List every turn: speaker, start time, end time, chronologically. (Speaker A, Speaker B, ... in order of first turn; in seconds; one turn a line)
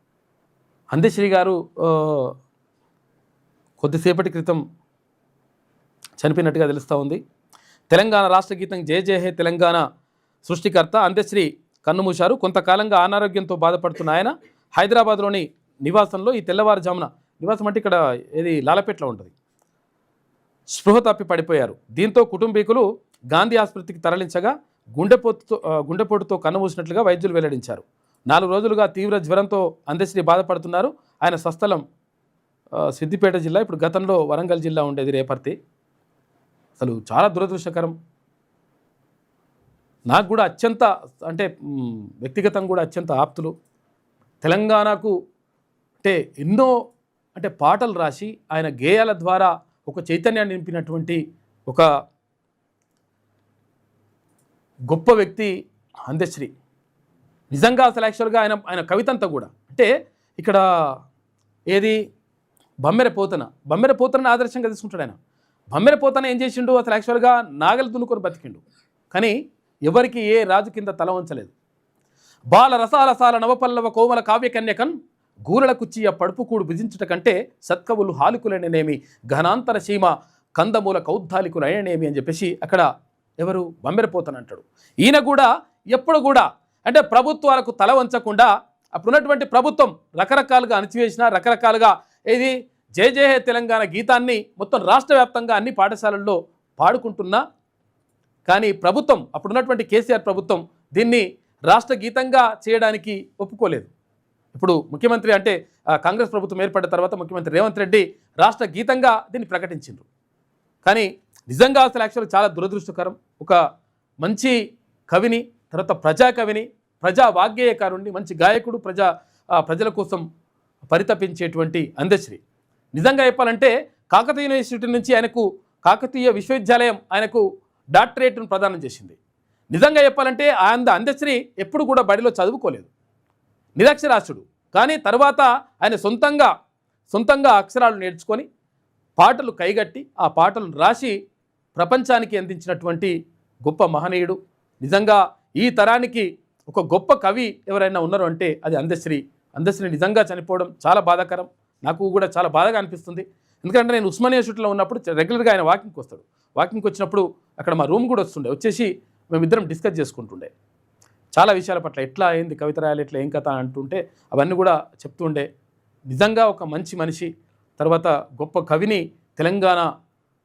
Speaker A: 0.9-2.3
Speaker A: 3.8-4.6
Speaker A: 6.2-7.2
Speaker A: 7.9-9.8
Speaker A: 10.4-19.3
Speaker A: 20.7-31.8
Speaker A: 32.8-35.5
Speaker A: 36.8-38.0
Speaker A: 40.1-43.5
Speaker A: 44.4-45.1
Speaker A: 46.0-46.7
Speaker A: 47.3-51.9
Speaker A: 54.9-55.5
Speaker A: 56.1-56.5
Speaker A: 57.5-60.6
Speaker A: 61.7-62.0
Speaker A: 62.9-65.2
Speaker A: 65.7-69.3
Speaker A: 69.9-71.5
Speaker A: 72.5-75.0
Speaker A: 75.5-82.9
Speaker A: 83.4-97.4
Speaker A: 98.5-103.9
Speaker A: 104.5-110.1
Speaker A: 110.8-113.6
Speaker A: 114.2-114.6
Speaker A: 115.1-120.2
Speaker A: 120.9-122.4
Speaker A: 123.0-127.4
Speaker A: 128.0-129.2
Speaker A: 129.7-132.9
Speaker A: 133.8-136.5
Speaker A: 137.1-138.5
Speaker A: 139.2-141.2
Speaker A: 141.8-143.1
Speaker A: 143.7-160.5
Speaker A: 161.4-165.5
Speaker A: 166.1-169.9